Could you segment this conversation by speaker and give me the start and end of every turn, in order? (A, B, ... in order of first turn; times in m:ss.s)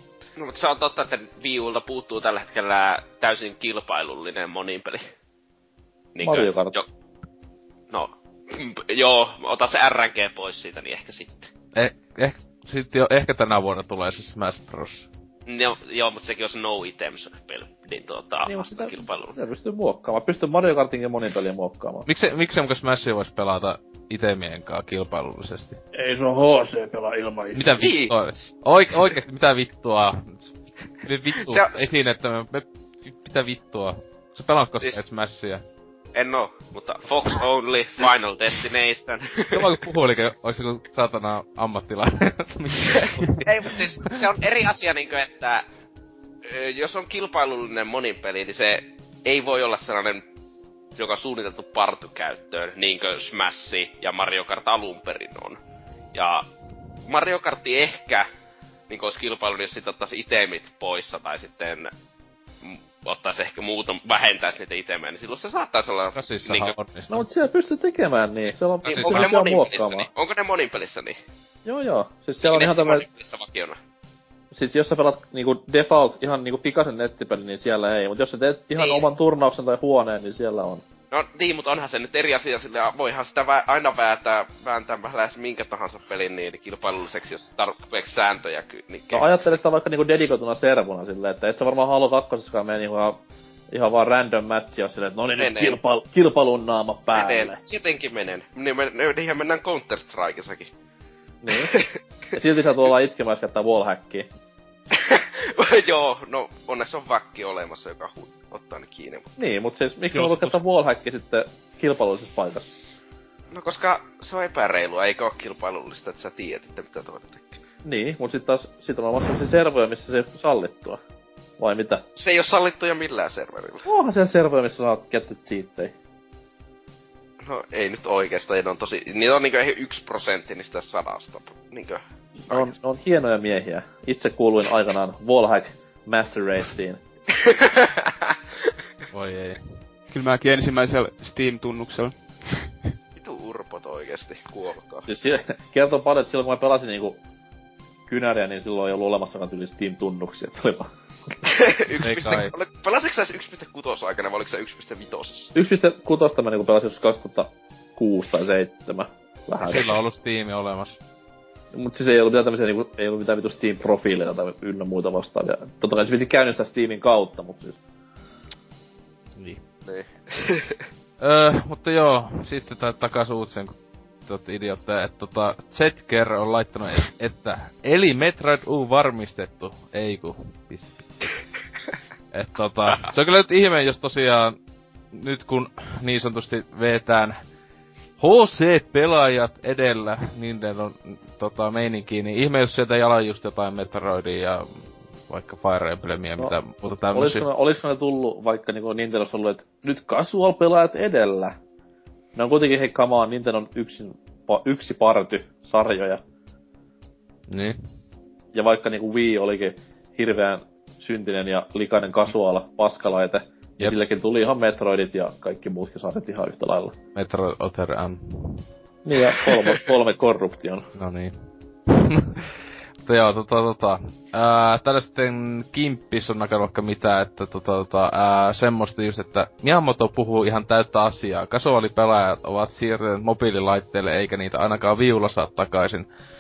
0:00.4-0:05.1 A
0:06.2-0:06.9 A
0:06.2-0:06.8 B
0:07.9-0:11.5 A
0:11.8-0:15.1 C
0:15.5-0:19.4 A
0:18.5-0:22.1 B
0:22.1-0:25.8 C
0:25.9-0:27.8 B
0:27.5-0:35.6 C
0:27.8-0:28.2 A
0:31.4-0:31.9 A
0:36.2-0:39.7 A
0:39.5-0:44.2 C
0:43.0-0:45.7 A
0:46.4-0:50.2 A
0:51.0-0:55.6 A
0:56.1-0:56.5 A
0:57.0-0:58.3 A
0:58.9-1:01.9 A
1:02.6-1:06.7 A
1:06.1-1:07.2 C
1:07.1-1:10.1 B
1:08.8-1:09.3 C
1:08.9-1:11.2 A
1:11.6-1:13.0 B
1:12.4-1:13.8 A
1:14.5-1:20.8 B
1:18.8-1:19.1 A
1:21.1-1:29.6 A
1:29.1-1:33.2 B
1:33.7-1:37.6 B
1:35.4-1:35.8 A
1:37.1-1:40.7 A
1:41.4-1:41.7 B
1:41.5-1:41.9 A
1:42.3-1:44.3 B
1:44.9-1:49.4 A
1:49.4-1:52.7 B
1:50.1-1:50.6 C
1:53.5-1:57.6 A
1:57.8-2:01.0 B
2:01.6-2:02.0 B
2:02.2-2:03.9 A
2:03.8-2:05.9 B
2:07.4-2:12.7 A
2:12.5-2:17.0 B
2:17.4-2:18.7 A
2:19.1-2:19.8 C
2:20.1-2:22.8 D
2:23.2-2:25.1 A
2:25.1-2:27.2 B
2:28.1-2:30.9 B
2:31.4-2:35.5 A
2:32.0-2:32.5 C
2:35.6-2:40.0 B
2:39.6-2:41.0 C
2:41.7-2:47.8 B
2:49.4-2:49.6 C
2:49.9-2:50.8 A
2:51.2-3:01.1 C
3:02.3-3:04.6 C
3:05.1-3:07.4 C
3:08.2-3:17.5 C
3:17.1-3:21.6 B
3:22.4-3:26.2 B
3:27.5-3:27.8 C
3:28.5-3:37.0 B
3:37.2-3:38.7 C
3:39.0-3:40.9 B
3:41.0-3:56.1 C